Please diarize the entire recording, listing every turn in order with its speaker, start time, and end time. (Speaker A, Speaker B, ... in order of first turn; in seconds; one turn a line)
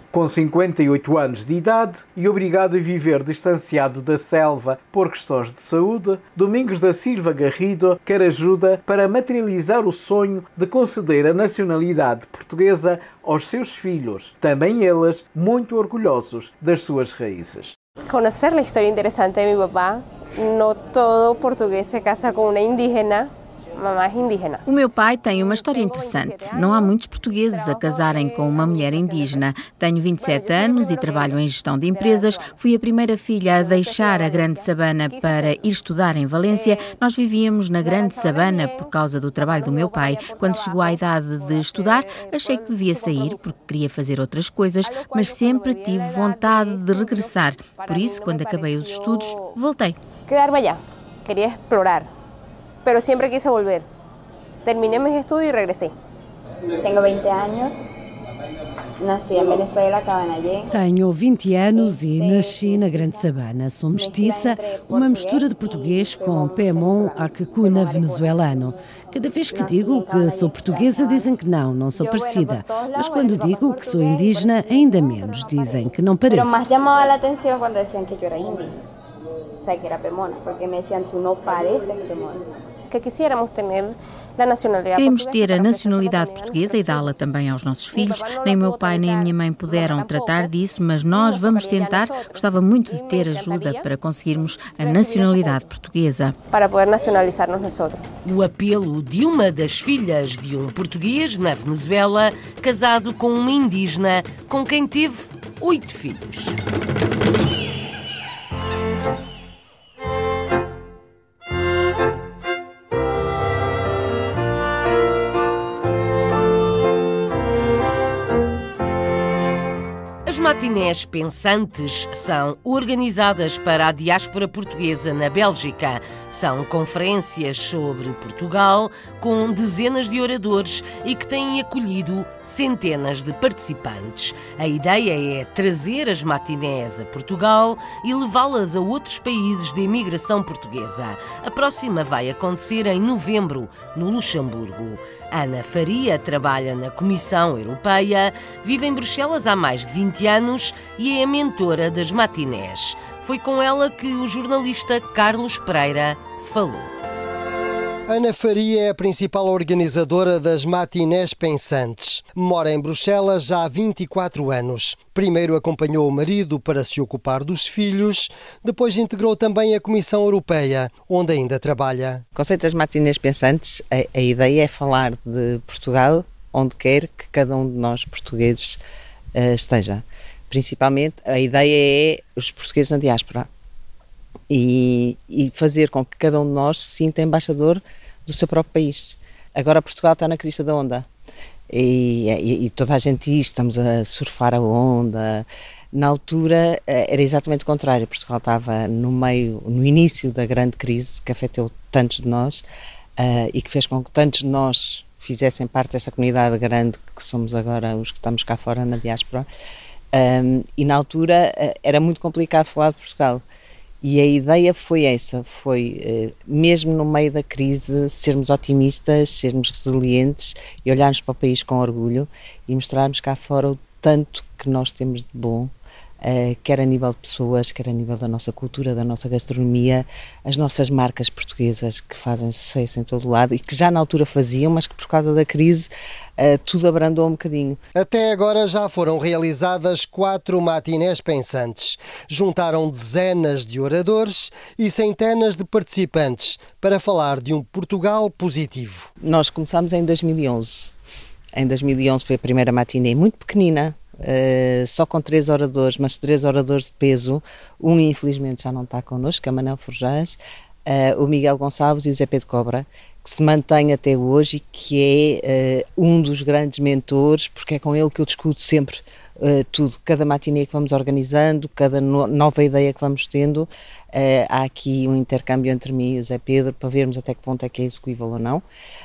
Speaker A: 0.1-17.8
Speaker B: 18.0-24.6
Speaker C: 24.6-50.0
Speaker B: 25.3-29.5
Speaker B: 30.2-32.5
Speaker B: 33.5-35.6
Speaker B: 36.4-36.9
Speaker B: 37.8-43.5
Speaker B: 44.8-49.5
Speaker B: 50.2-52.1
Speaker B: 52.8-53.9
Speaker B: 54.6-55.9
Speaker D: 56.8-57.7
Speaker D: 59.0-60.8
Speaker E: 60.7-68.7
Speaker D: 61.6-63.3
Speaker D: 63.9-68.4
Speaker D: 69.1-71.4
Speaker E: 69.2-76.5
Speaker D: 71.9-78.8
Speaker B: 73.2-73.8
Speaker D: 79.6-82.4
Speaker B: 82.9-87.2
Speaker C: 85.0-96.3
Speaker B: 87.9-90.5
Speaker B: 91.1-93.9
Speaker B: 94.8-95.7
Speaker B: 96.5-98.0
Speaker F: 98.2-106.5
Speaker F: 120.2-156.9
Speaker G: 158.1-172.2
Speaker H: 172.3-178.8
Speaker H: 179.3-183.5
Speaker H: 184.5-191.1
Speaker H: 191.7-202.6
Speaker H: 203.2-209.5
Speaker H: 210.1-213.4
Speaker H: 214.0-225.7
Speaker H: 226.2-237.8
Speaker G: 237.9-249.1
Speaker H: 249.2-250.9
Speaker H: 251.5-278.6